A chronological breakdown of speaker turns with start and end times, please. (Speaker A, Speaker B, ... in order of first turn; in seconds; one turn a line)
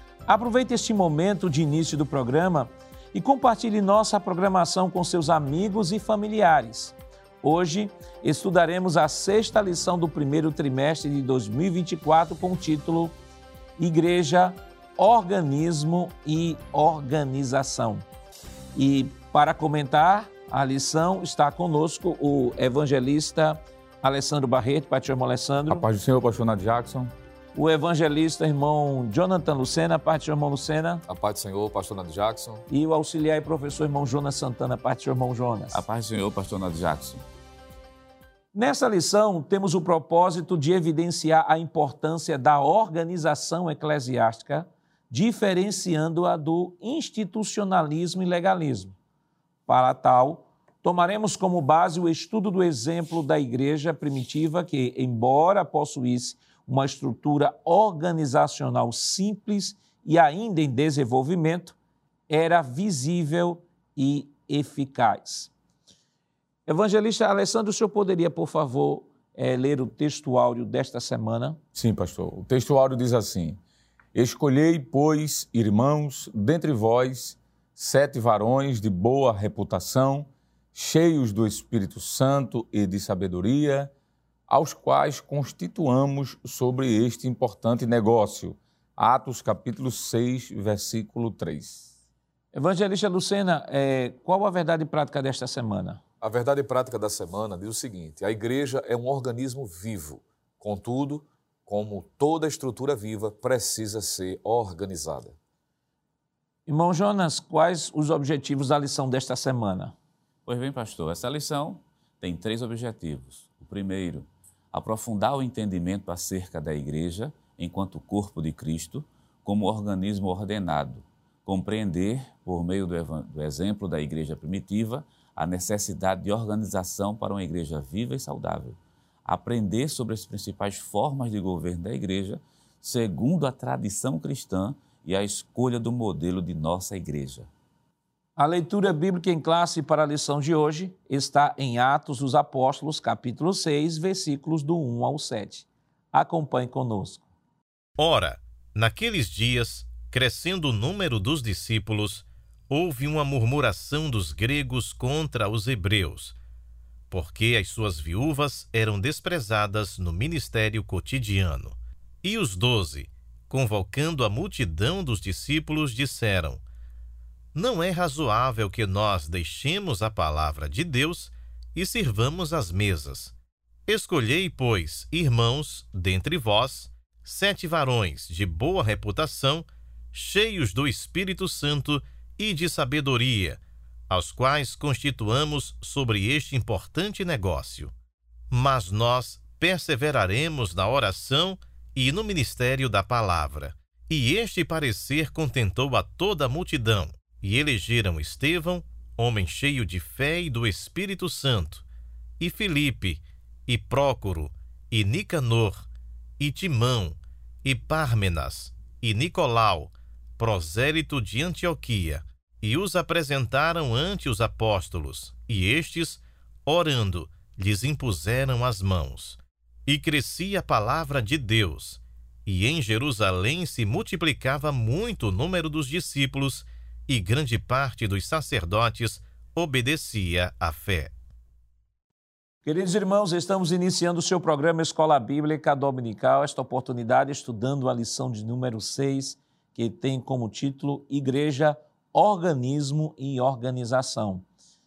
Speaker A: 0.3-13.1
Speaker A: 13.8-18.1
Speaker A: 18.8-25.9
Speaker B: 25.7-27.1
Speaker A: 27.5-31.0
Speaker C: 31.1-32.6
Speaker A: 32.7-35.8
Speaker D: 35.7-37.2
Speaker A: 38.5-49.0
Speaker A: 49.7-61.8
Speaker A: 62.3-65.5
Speaker A: 66.7-71.6
Speaker B: 71.8-73.6
Speaker B: 74.1-83.9
Speaker B: 84.5-91.9
Speaker A: 92.5-96.0
Speaker C: 96.2-105.4
Speaker A: 106.7-109.9
Speaker D: 110.5-137.5
Speaker A: 138.4-147.2
Speaker E: 148.0-156.4
Speaker E: 157.1-166.6
Speaker E: 167.6-173.3
Speaker E: 173.9-187.9
Speaker E: 188.5-201.8
Speaker E: 202.4-205.9
Speaker E: 206.4-231.1
Speaker A: 232.7-244.4